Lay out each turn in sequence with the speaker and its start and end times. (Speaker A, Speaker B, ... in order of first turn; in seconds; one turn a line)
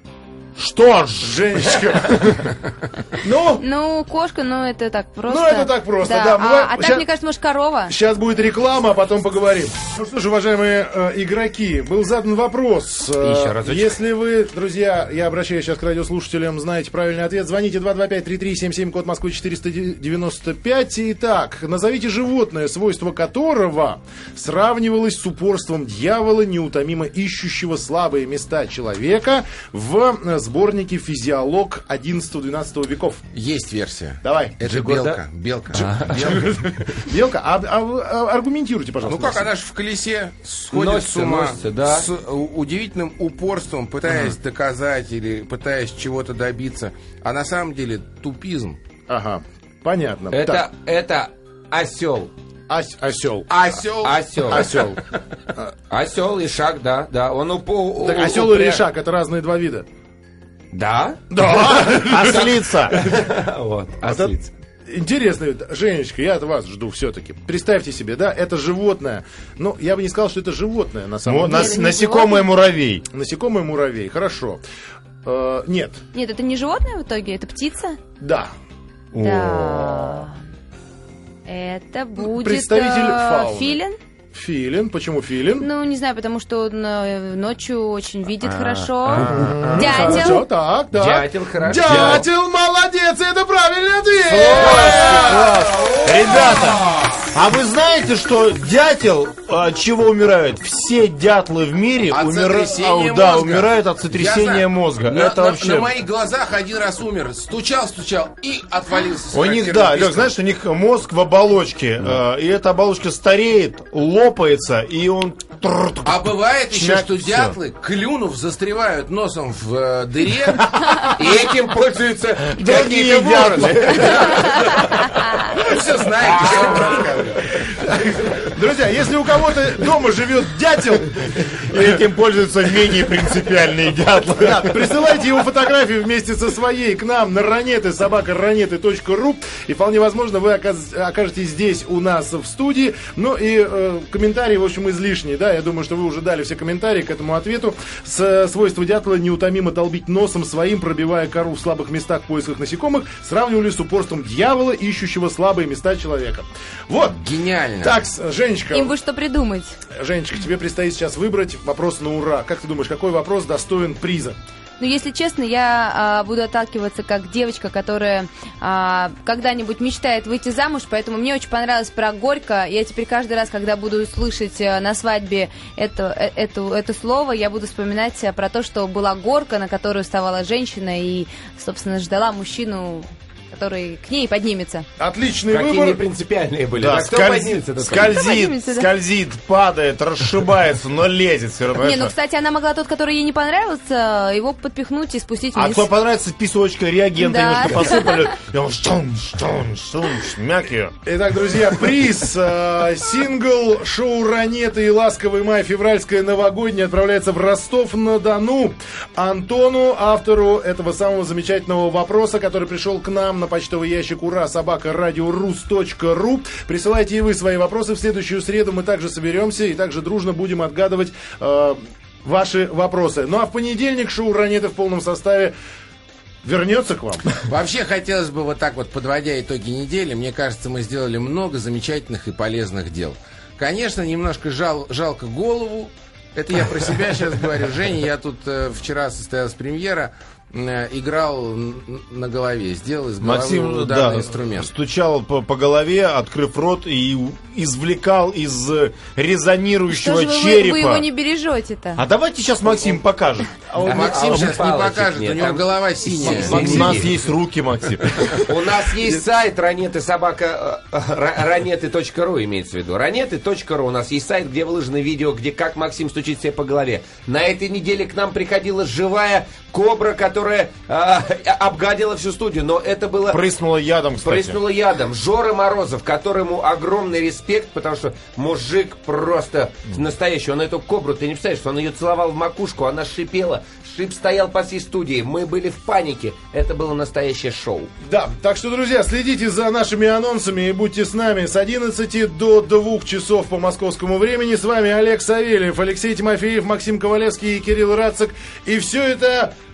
Speaker A: 0.6-2.5
Speaker B: 1.2-2.5
Speaker B: 3.1-3.6
Speaker C: 3.6-7.9
Speaker B: 5.3-7.0
Speaker B: 7.9-33.2
Speaker D: 13.2-14.0
Speaker E: 33.3-36.4
Speaker B: 34.2-34.6
Speaker D: 34.6-36.8
Speaker B: 36.1-39.5
Speaker E: 39.0-48.8
Speaker D: 40.7-42.1
Speaker B: 49.1-50.6
Speaker D: 50.3-52.3
Speaker B: 52.7-53.5
Speaker E: 53.5-54.7
Speaker D: 54.0-55.0
Speaker B: 54.4-55.0
Speaker D: 55.9-58.8
Speaker B: 58.0-59.9
Speaker D: 60.7-61.2
Speaker B: 61.3-63.3
Speaker A: 61.5-63.0
Speaker D: 62.2-64.5
Speaker B: 64.0-64.3
Speaker B: 64.9-71.8
Speaker A: 71.2-73.0
Speaker C: 71.5-72.5
Speaker B: 73.1-74.6
Speaker B: 75.2-76.0
Speaker C: 76.1-78.0
Speaker B: 78.2-78.5
Speaker A: 79.1-80.3
Speaker C: 79.2-80.3
Speaker C: 81.5-84.0
Speaker B: 82.2-83.8
Speaker B: 84.3-85.7
Speaker C: 85.6-90.5
Speaker D: 88.4-89.7
Speaker B: 89.3-96.1
Speaker A: 89.4-89.7
Speaker D: 90.9-92.3
Speaker A: 91.8-92.2
Speaker D: 94.3-96.7
Speaker E: 94.5-95.5
Speaker A: 94.7-105.9
Speaker E: 96.1-97.3
Speaker E: 102.1-110.3
Speaker A: 109.3-117.6
Speaker E: 116.0-120.8
Speaker D: 121.1-124.9
Speaker A: 122.5-124.8
Speaker E: 125.5-127.5
Speaker B: 126.2-127.3
Speaker B: 127.9-131.8
Speaker A: 131.6-135.1
Speaker B: 134.5-157.2
Speaker E: 157.0-158.0
Speaker B: 157.8-158.9
Speaker C: 158.7-159.8
Speaker B: 159.9-164.4
Speaker C: 164.8-184.8
Speaker B: 185.0-186.0
Speaker D: 185.5-188.2
Speaker A: 186.7-192.1
Speaker C: 187.9-188.9
Speaker C: 191.8-195.9
Speaker A: 195.5-200.9
Speaker C: 197.2-198.3
Speaker B: 201.0-225.5
Speaker B: 226.4-227.4
Speaker E: 227.4-244.7
Speaker A: 243.2-251.1
Speaker C: 249.9-252.0
Speaker A: 251.9-253.6
Speaker B: 253.7-254.3
Speaker D: 253.8-257.2
Speaker E: 253.8-257.1
Speaker A: 256.2-258.3
Speaker B: 256.3-256.9
Speaker D: 258.3-273.4
Speaker A: 273.3-274.6
Speaker D: 274.2-287.9
Speaker B: 288.0-299.5